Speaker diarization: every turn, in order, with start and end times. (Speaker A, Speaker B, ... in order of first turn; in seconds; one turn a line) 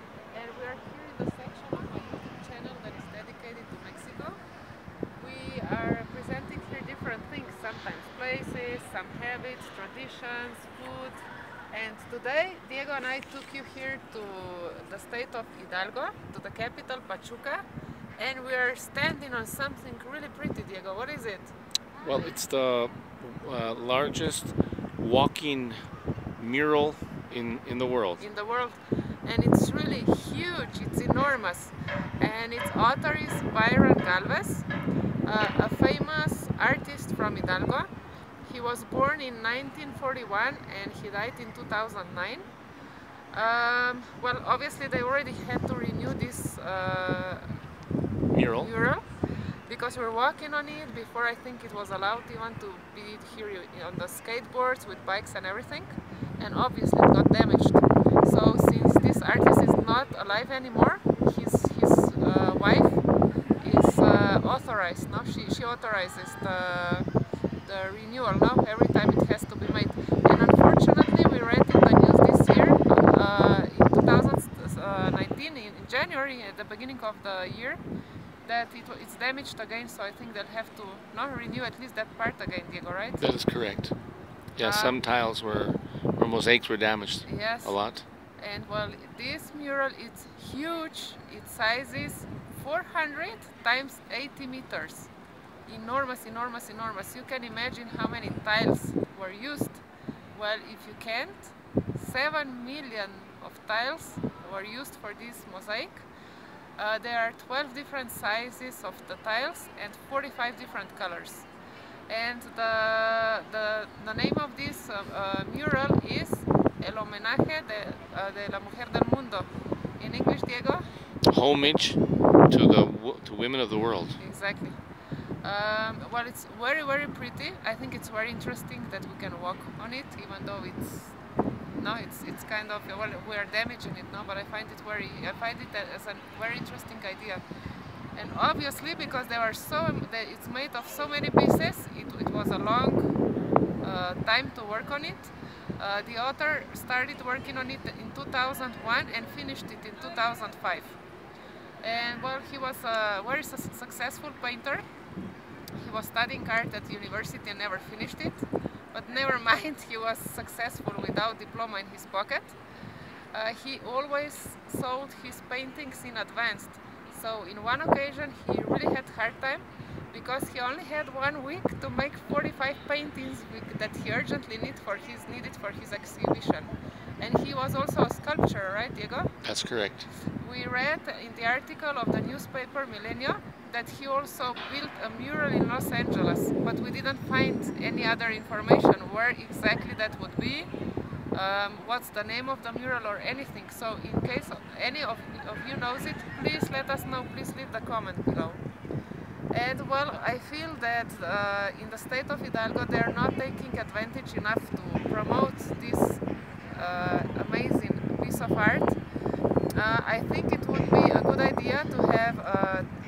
Speaker A: 0.3-4.4
Speaker A: 5.2-11.2
Speaker A: 11.7-17.6
Speaker A: 18.2-21.5
Speaker B: 22.0-25.8
Speaker B: 26.4-28.2
Speaker A: 28.2-34.6
Speaker A: 35.2-37.9
Speaker A: 38.4-42.5
Speaker A: 43.3-47.6
Speaker B: 48.3-48.7
Speaker A: 48.6-49.1
Speaker A: 49.7-63.0
Speaker A: 63.6-67.1
Speaker A: 67.6-77.8
Speaker A: 78.4-83.3
Speaker B: 83.2-83.9
Speaker B: 84.5-88.0
Speaker A: 84.6-85.0
Speaker A: 87.2-87.8
Speaker A: 88.4-95.1
Speaker A: 95.7-99.8
Speaker A: 100.3-106.1
Speaker A: 106.8-111.5
Speaker A: 112.1-120.8
Speaker B: 121.3-124.2
Speaker A: 124.2-124.8
Speaker A: 125.4-131.1
Speaker A: 131.8-137.4
Speaker A: 138.1-143.1
Speaker A: 143.8-151.0
Speaker A: 151.8-154.8
Speaker A: 155.8-162.6
Speaker A: 163.3-179.3
Speaker B: 179.4-180.0
Speaker A: 180.4-190.7
Speaker A: 191.3-198.6
Speaker A: 199.5-209.0
Speaker A: 209.8-212.8